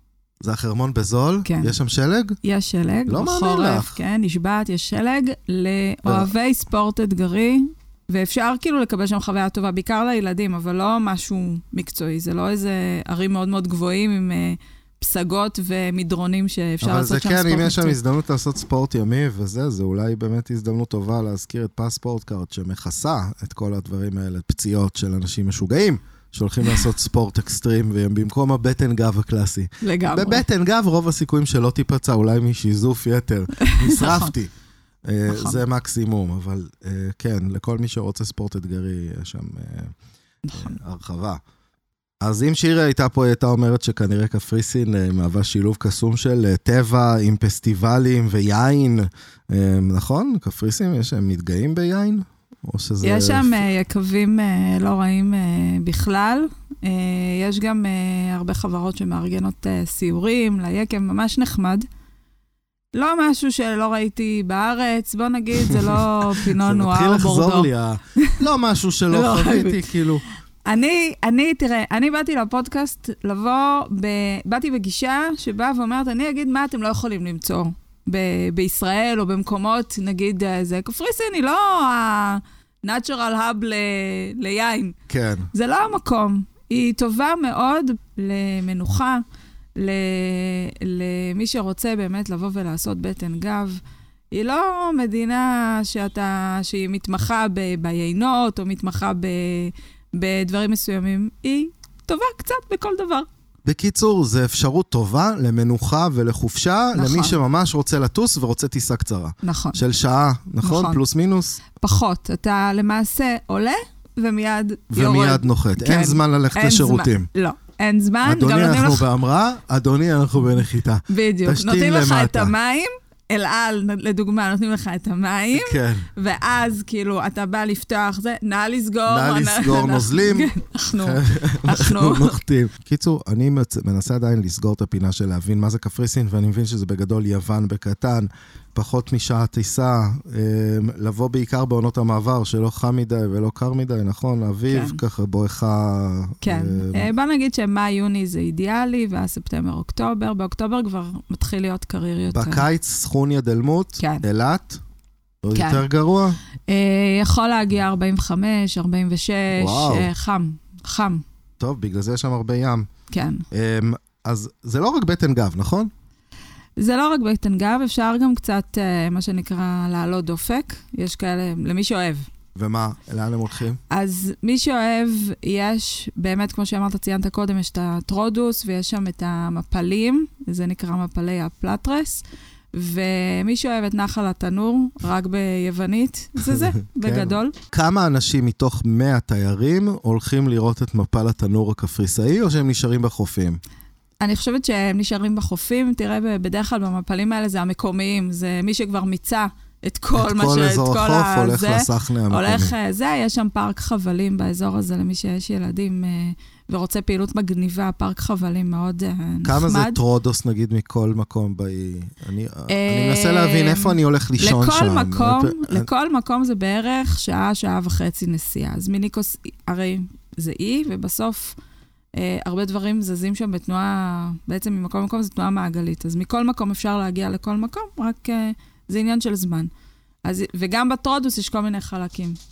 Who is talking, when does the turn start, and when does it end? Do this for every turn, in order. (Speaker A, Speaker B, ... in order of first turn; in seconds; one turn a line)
Speaker A: 0.4-2.4
Speaker B: 1.4-1.7
Speaker B: 2.4-18.0
Speaker A: 3.1-3.9
Speaker A: 6.0-6.3
Speaker A: 16.8-34.5
Speaker B: 29.8-30.4
Speaker B: 33.6-34.3
Speaker A: 35.0-39.9
Speaker B: 35.3-35.6
Speaker B: 40.4-40.8
Speaker A: 40.5-41.4
Speaker A: 42.2-53.6
Speaker B: 53.0-61.9
Speaker B: 62.9-68.4
Speaker A: 65.6-70.2
Speaker B: 69.1-69.9
Speaker B: 70.6-85.0
Speaker A: 85.1-85.5
Speaker B: 85.5-89.2
Speaker B: 89.8-93.8
Speaker B: 94.3-103.3
Speaker A: 103.6-111.6
Speaker B: 106.9-107.4
Speaker B: 109.4-109.8
Speaker B: 110.6-111.0
Speaker B: 111.7-119.0
Speaker A: 114.9-117.3
Speaker A: 118.2-122.5
Speaker B: 121.1-132.4
Speaker A: 125.5-126.1
Speaker A: 129.1-147.1
Speaker B: 144.7-145.0
Speaker B: 146.4-152.6
Speaker A: 152.3-154.8
Speaker B: 154.0-154.2
Speaker A: 155.4-156.4
Speaker B: 155.5-155.8
Speaker B: 156.7-161.2
Speaker A: 159.6-160.1
Speaker A: 161.6-162.9
Speaker B: 163.1-163.4
Speaker A: 163.5-165.9
Speaker B: 166.8-172.3
Speaker A: 172.6-173.8
Speaker B: 173.9-187.5
Speaker A: 186.4-193.6
Speaker B: 194.2-210.0
Speaker A: 200.1-202.7
Speaker A: 209.4-215.9
Speaker B: 212.7-221.6
Speaker B: 222.1-229.7
Speaker B: 230.2-232.4